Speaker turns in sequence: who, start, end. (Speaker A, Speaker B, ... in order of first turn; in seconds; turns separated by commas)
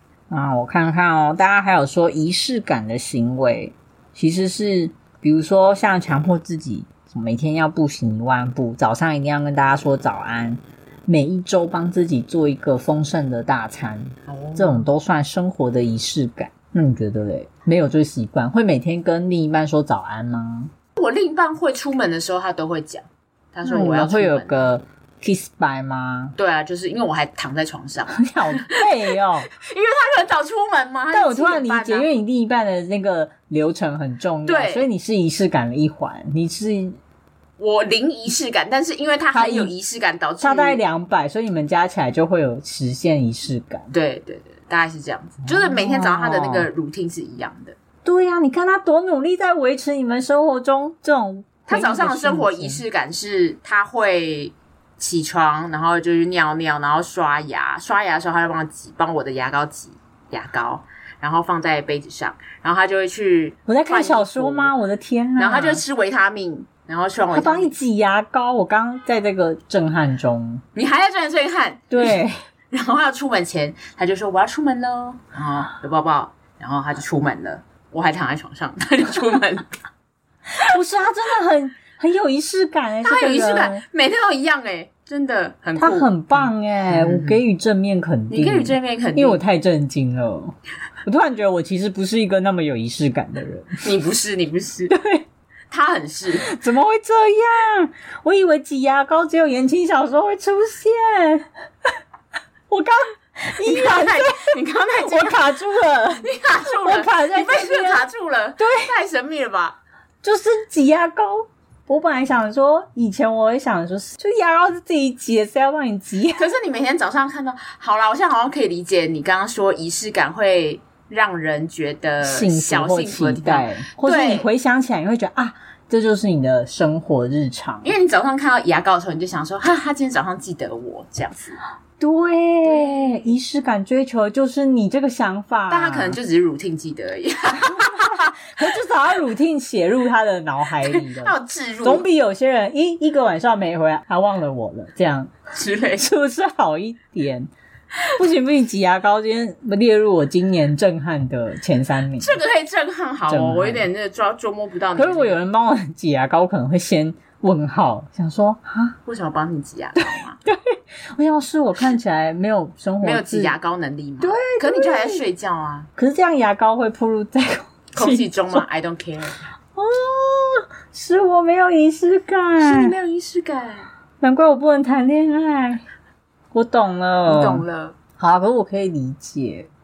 Speaker A: 0.3-20.7, Speaker B: 14.3-14.9, Speaker B: 21.0-24.7, Speaker A: 23.6-26.4, Speaker B: 26.4-28.9, Speaker A: 28.2-29.5, Speaker B: 29.5-32.1, Speaker A: 31.1-37.0, Speaker B: 34.5-34.9, Speaker B: 37.6-40.8, Speaker A: 39.3-39.7, Speaker A: 40.4-43.9, Speaker B: 43.9-47.8, Speaker A: 45.5-46.7, Speaker A: 48.0-52.8, Speaker B: 51.7-64.8, Speaker A: 63.7-65.8, Speaker B: 65.4-67.7, Speaker A: 67.3-70.6, Speaker B: 70.8-72.2, Speaker A: 71.9-72.4, Speaker B: 72.7-79.7, Speaker A: 80.6-83.8, Speaker B: 83.0-87.4, Speaker A: 85.8-93.8, Speaker B: 88.3-89.4, Speaker B: 93.8-94.9, Speaker A: 94.9-95.2, Speaker B: 95.7-96.5, Speaker A: 96.4-101.5, Speaker A: 102.7-108.1, Speaker B: 103.6-105.4, Speaker B: 106.2-109.8, Speaker A: 108.6-108.9, Speaker A: 110.2-116.5, Speaker B: 116.4-124.5, Speaker A: 122.2-128.0, Speaker B: 127.8-131.6, Speaker A: 132.0-136.2, Speaker B: 132.6-133.3, Speaker B: 135.7-138.3, Speaker A: 137.6-145.3, Speaker B: 140.8-142.1, Speaker B: 145.5-146.1, Speaker A: 146.0-147.5, Speaker A: 148.2-152.4, Speaker B: 152.2-155.4, Speaker A: 153.3-153.9, Speaker A: 154.9-159.0, Speaker B: 159.1-160.4, Speaker A: 160.0-163.5, Speaker B: 163.0-165.9, Speaker A: 164.2-165.2, Speaker A: 166.0-168.6, Speaker B: 167.9-169.5, Speaker A: 169.8-172.9, Speaker B: 172.6-173.9, Speaker A: 174.2-175.8, Speaker A: 176.5-177.7, Speaker B: 177.3-178.0, Speaker A: 178.2-179.7